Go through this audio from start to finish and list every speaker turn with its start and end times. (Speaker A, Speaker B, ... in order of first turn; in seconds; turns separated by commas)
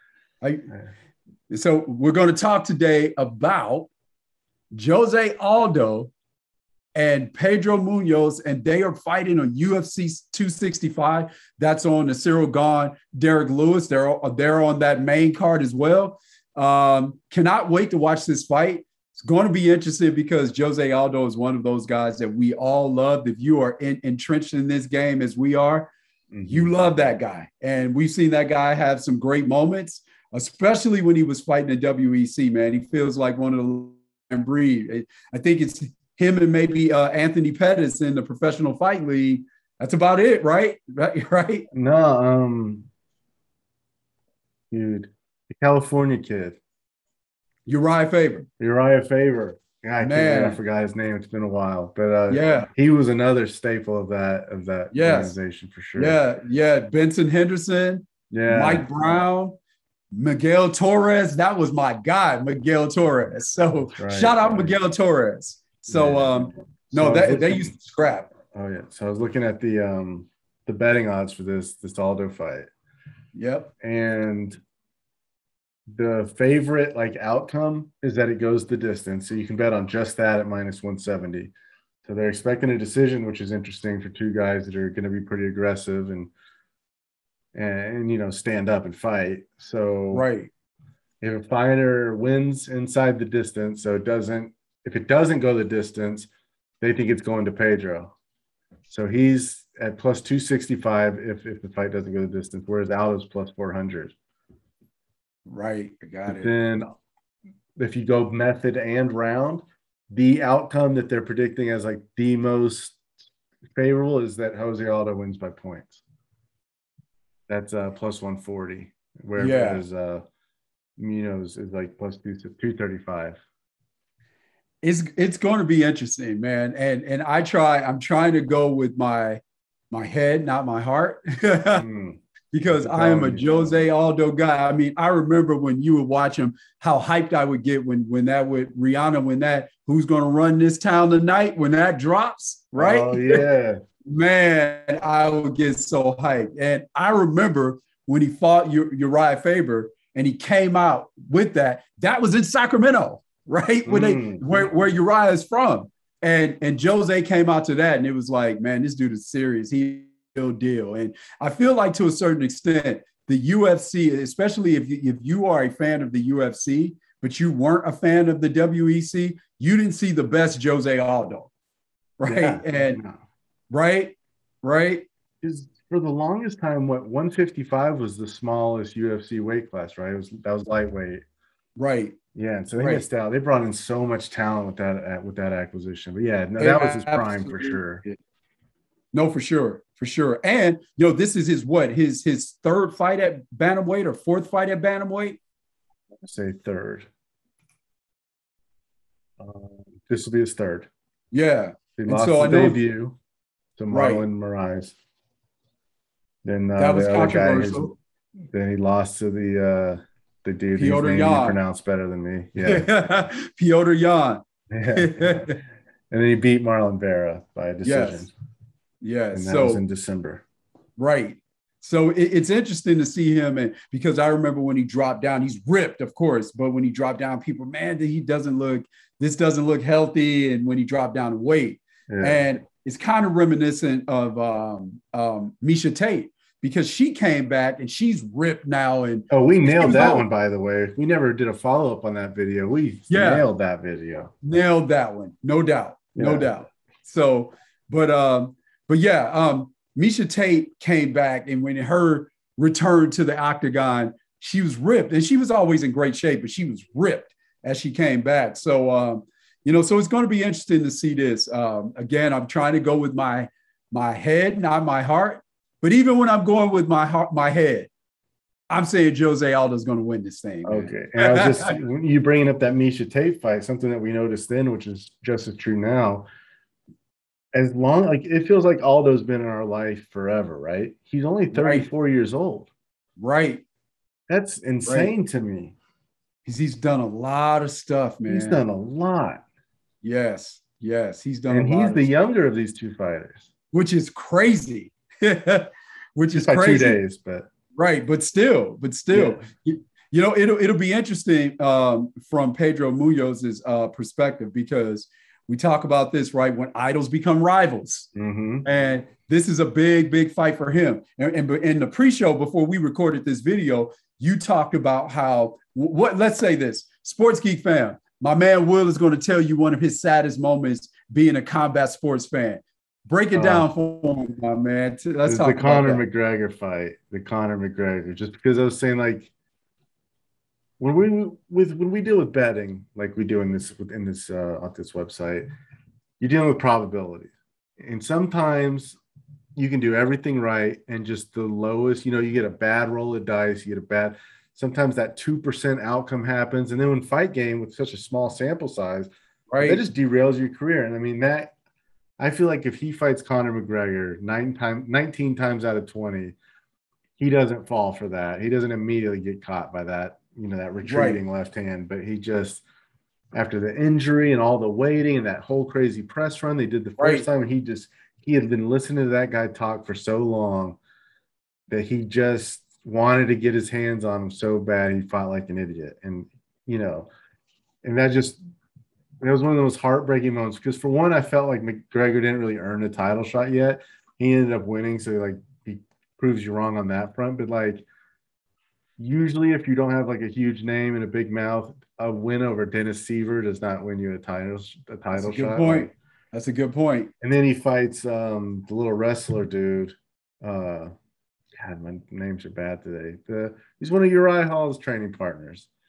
Speaker A: 0.4-0.7, Speaker A: 1.5-3.9, Speaker A: 4.7-6.1, Speaker A: 7.0-25.9, Speaker B: 26.3-26.7, Speaker A: 26.5-41.7, Speaker B: 41.7-42.9, Speaker B: 44.7-46.6, Speaker A: 47.7-48.5, Speaker B: 48.6-56.2, Speaker A: 50.0-50.6, Speaker A: 52.3-52.7, Speaker A: 54.9-55.4, Speaker A: 56.0-59.6, Speaker B: 58.3-58.9, Speaker A: 60.1-68.3, Speaker B: 63.9-64.8, Speaker B: 65.9-67.7, Speaker B: 68.5-72.7, Speaker A: 73.3-73.7, Speaker B: 73.8-74.6, Speaker B: 75.9-81.5, Speaker B: 82.1-86.3, Speaker B: 87.5-90.3, Speaker A: 90.1-90.5, Speaker B: 91.2-96.3, Speaker B: 96.8-98.1, Speaker B: 98.9-104.1, Speaker A: 105.5-106.6, Speaker B: 106.3-106.9, Speaker B: 107.8-113.0, Speaker B: 113.8-116.0, Speaker B: 117.5-120.2, Speaker A: 119.4-119.8, Speaker B: 121.0-123.4, Speaker A: 124.8-131.8, Speaker B: 131.7-133.8, Speaker A: 132.5-143.4, Speaker B: 142.8-143.8, Speaker A: 144.1-171.5, Speaker B: 153.9-154.7, Speaker A: 172.2-173.0, Speaker B: 172.3-173.2, Speaker A: 173.7-175.1, Speaker B: 175.4-181.2, Speaker A: 181.8-182.2, Speaker B: 182.3-188.0, Speaker A: 182.8-183.0, Speaker A: 186.6-188.2, Speaker A: 189.1-195.4, Speaker B: 196.2-197.1, Speaker B: 199.4-200.9, Speaker A: 201.3-202.8, Speaker B: 202.0-203.2, Speaker B: 203.8-204.9, Speaker A: 203.9-204.2, Speaker B: 206.4-207.9, Speaker A: 206.8-208.0, Speaker B: 208.5-212.9, Speaker A: 210.8-211.6, Speaker A: 212.6-215.6, Speaker B: 214.7-215.5, Speaker B: 216.1-218.3, Speaker A: 217.8-218.3, Speaker A: 219.0-219.8, Speaker B: 219.3-220.4, Speaker A: 221.0-240.3, Speaker B: 232.1-232.4, Speaker B: 239.3-244.3, Speaker A: 243.1-243.5, Speaker A: 244.4-267.9, Speaker B: 246.2-246.5, Speaker A: 268.7-271.8, Speaker B: 270.6-276.2, Speaker B: 277.6-282.7, Speaker A: 281.5-281.9, Speaker A: 283.2-283.6, Speaker B: 284.3-285.7, Speaker A: 284.9-285.1, Speaker A: 286.5-288.6, Speaker B: 288.3-289.4, Speaker A: 290.0-292.1, Speaker B: 291.5-293.5, Speaker A: 293.7-297.0, Speaker B: 296.3-297.5, Speaker A: 297.7-308.1, Speaker B: 299.1-299.4, Speaker B: 308.1-308.7, Speaker A: 308.6-326.1, Speaker B: 323.3-323.7, Speaker B: 325.3-329.3, Speaker B: 330.8-335.5, Speaker B: 336.2-339.0, Speaker B: 339.6-351.5, Speaker A: 349.5-349.8, Speaker B: 352.2-356.4, Speaker B: 357.2-362.6, Speaker A: 360.8-361.2, Speaker B: 363.3-370.8, Speaker A: 367.0-367.3, Speaker B: 371.7-377.1, Speaker B: 377.8-378.4, Speaker B: 379.2-387.9, Speaker B: 389.0-395.9, Speaker A: 395.2-397.1, Speaker B: 397.2-400.9, Speaker B: 401.6-405.7